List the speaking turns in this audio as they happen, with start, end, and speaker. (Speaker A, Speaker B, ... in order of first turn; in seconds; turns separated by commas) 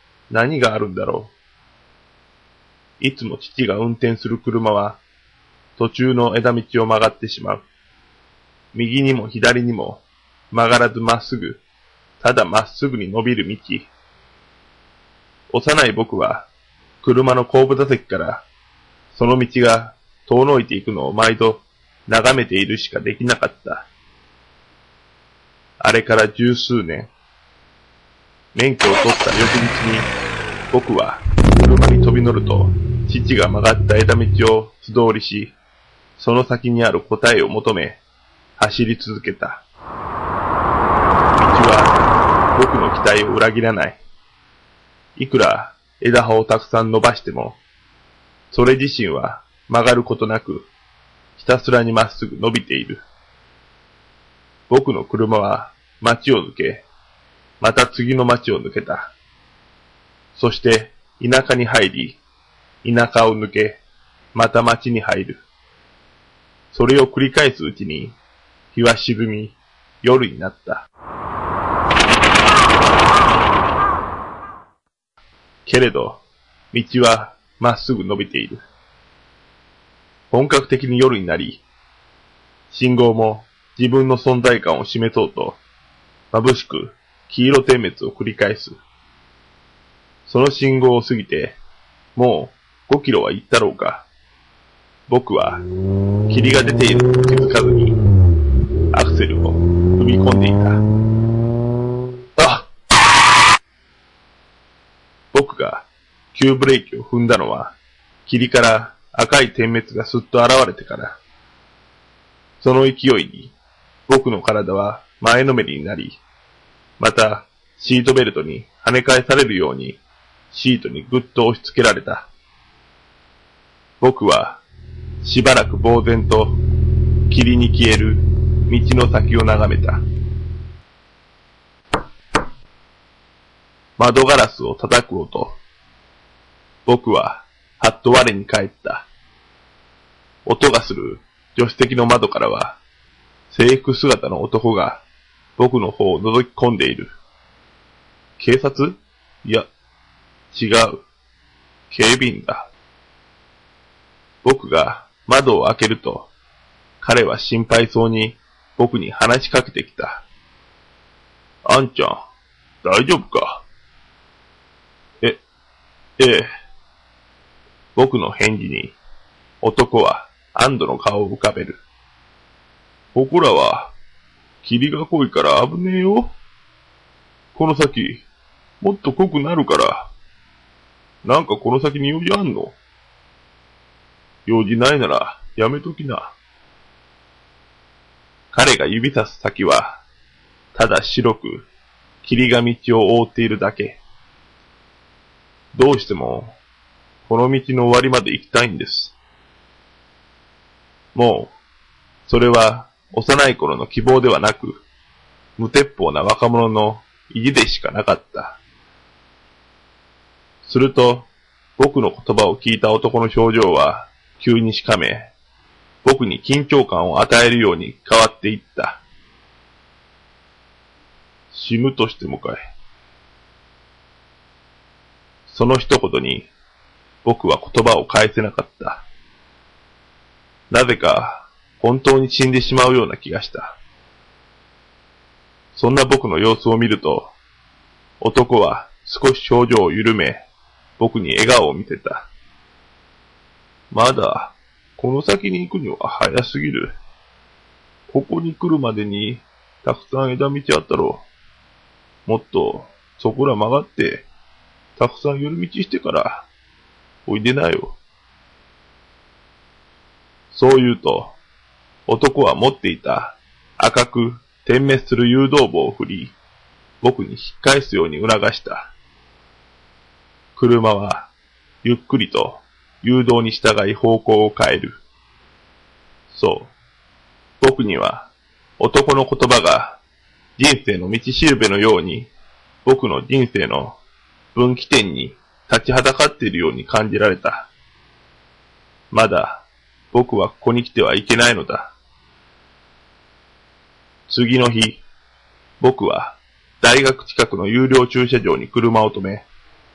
Speaker A: 0.3-1.3, Speaker A: 3.0-5.0, Speaker A: 5.8-7.6, Speaker A: 8.7-11.6, Speaker A: 12.2-13.9, Speaker A: 15.5-16.5, Speaker A: 17.0-18.4, Speaker A: 19.1-23.9, Speaker A: 25.8-27.1, Speaker A: 28.5-30.1, Speaker A: 30.7-35.5, Speaker A: 36.2-38.0, Speaker A: 38.6-39.6, Speaker A: 41.3-42.0, Speaker A: 42.5-44.0, Speaker A: 45.1-47.6, Speaker A: 48.5-50.7, Speaker A: 51.4-53.0, Speaker A: 54.7-56.9, Speaker A: 57.6-59.1, Speaker A: 60.3-62.2, Speaker A: 62.8-63.8, Speaker A: 64.3-65.4, Speaker A: 66.7-68.1, Speaker A: 68.7-70.8, Speaker A: 75.7-78.6, Speaker A: 80.3-81.6, Speaker A: 82.7-85.6, Speaker A: 86.3-88.8, Speaker A: 90.2-91.6, Speaker A: 92.1-94.1, Speaker A: 95.1-95.6, Speaker A: 96.3-98.0, Speaker A: 98.9-100.8, Speaker A: 102.4-102.7, Speaker A: 105.3-107.7, Speaker A: 108.2-111.2, Speaker A: 112.6-113.5, Speaker A: 114.1-116.2, Speaker A: 117.0-120.0, Speaker A: 120.5-122.3, Speaker A: 124.0-124.6, Speaker A: 125.2-126.6, Speaker A: 127.3-130.0, Speaker A: 134.0-135.6, Speaker A: 136.8-139.1, Speaker A: 140.4-142.8, Speaker A: 143.5-145.0, Speaker A: 145.6-147.1, Speaker A: 148.4-149.7, Speaker A: 150.5-151.0, Speaker A: 151.9-152.7, Speaker A: 154.4-156.3, Speaker A: 157.0-160.2, Speaker A: 161.6-162.2, Speaker A: 162.8-163.6, Speaker A: 166.2-166.5, Speaker A: 167.9-169.0, Speaker A: 169.6-171.8, Speaker A: 173.1-173.9, Speaker A: 174.6-176.3, Speaker A: 177.5-178.2, Speaker A: 178.8-180.1, Speaker A: 181.2-182.8, Speaker A: 184.4-186.3, Speaker A: 188.5-190.0, Speaker A: 190.7-191.7, Speaker A: 192.2-194.0, Speaker A: 195.7-196.6, Speaker A: 197.2-199.1, Speaker A: 201.1-201.5, Speaker A: 202.3-204.8, Speaker A: 205.6-208.6, Speaker A: 210.6-215.3, Speaker A: 216.0-219.0, Speaker A: 221.5-222.7, Speaker A: 225.5-226.5, Speaker A: 227.2-229.0, Speaker A: 230.7-233.8, Speaker A: 235.7-237.3, Speaker A: 238.2-240.4, Speaker A: 241.0-242.3, Speaker A: 243.9-246.9, Speaker A: 248.1-251.2, Speaker A: 252.2-254.3, Speaker A: 254.9-256.5, Speaker A: 257.2-258.0, Speaker A: 260.5-261.4, Speaker A: 262.1-266.3, Speaker A: 267.0-268.9, Speaker A: 270.6-271.3, Speaker A: 271.8-275.0, Speaker A: 276.3-276.7, Speaker A: 277.6-280.0, Speaker A: 280.6-282.3, Speaker A: 282.8-284.0, Speaker A: 284.5-287.7, Speaker A: 289.1-291.9, Speaker A: 294.3-295.0, Speaker A: 295.8-299.4